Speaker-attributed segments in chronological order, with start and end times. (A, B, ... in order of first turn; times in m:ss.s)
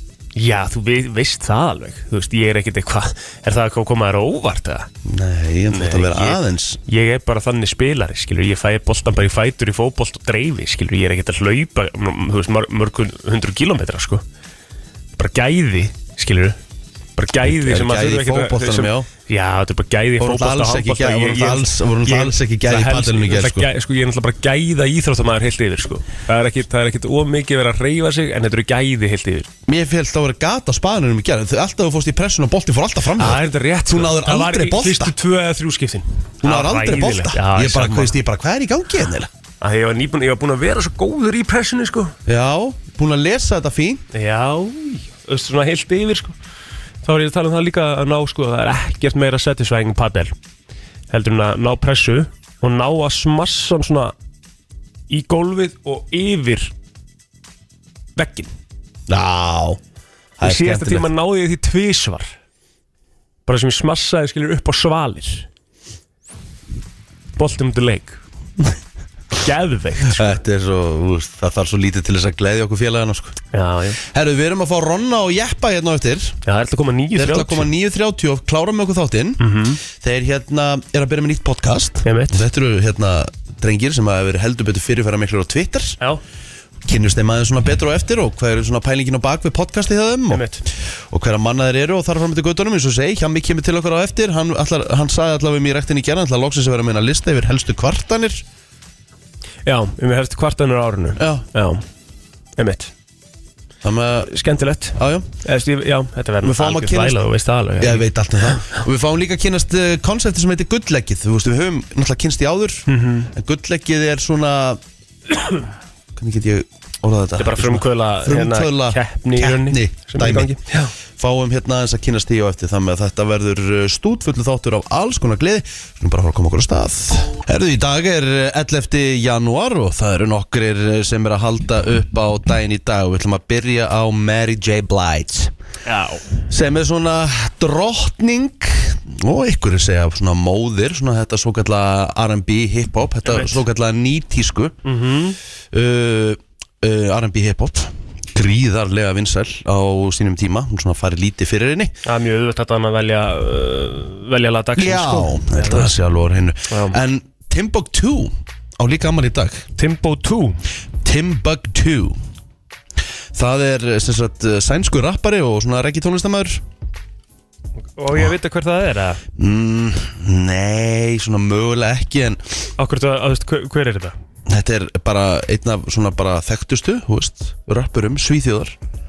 0:00.4-0:04.9 A
0:05.0-0:06.8 B
0:05.7-0:14.2 A
0:15.2-0:16.6 A
0:17.2-0:29.5 A
0:17.3-0:19.1 B
0:20.2-0:23.7 B
0:29.7-0:35.1 B
0:33.2-0:38.1 A
0:36.4-0:39.3 B
0:39.6-0:42.1 A
0:42.2-0:44.0 B
0:44.1-0:46.3 A
0:47.0-0:50.3 A
0:51.1-0:54.1 A
0:55.1-0:56.7 A
0:58.2-0:58.5 A
0:59.1-0:59.8 B
1:00.4-1:01.1 B
1:00.4-1:02.3 A
1:03.4-1:05.5 A
1:07.4-1:08.2 A
1:09.4-1:10.4 A
1:10.0-1:13.4 B
1:13.5-1:14.0 A
1:14.0-1:16.4 B
1:16.4-1:17.7 A
1:17.1-1:26.0 B
1:19.4-1:19.8 A
1:22.0-1:22.4 A
1:26.8-1:30.4 B
1:30.3-1:30.6 A
1:31.1-1:38.4 B
1:39.6-1:41.8 A
1:41.2-1:41.4 B
1:42.6-1:42.9 A
1:43.8-1:44.3 B
1:44.3-1:48.1 A
1:45.0-1:45.3 B
1:46.4-1:47.2 B
1:47.8-1:54.8 B
1:52.9-1:53.3 A
1:56.1-2:15.5 B
1:57.4-2:00.9 A
2:15.8-2:16.2 A
2:16.5-2:24.8 B
2:23.2-2:23.6 A
2:24.8-2:25.4 A
2:25.7-2:31.9 B
2:32.0-2:35.9 A
2:34.8-2:39.6 B
2:36.7-2:37.0 A
2:39.8-2:40.6 A
2:41.0-2:42.2 B
2:43.3-2:46.6 B
2:48.0-2:49.2 A
2:49.4-2:52.4 B
2:52.8-2:54.1 A
2:54.4-2:58.8 B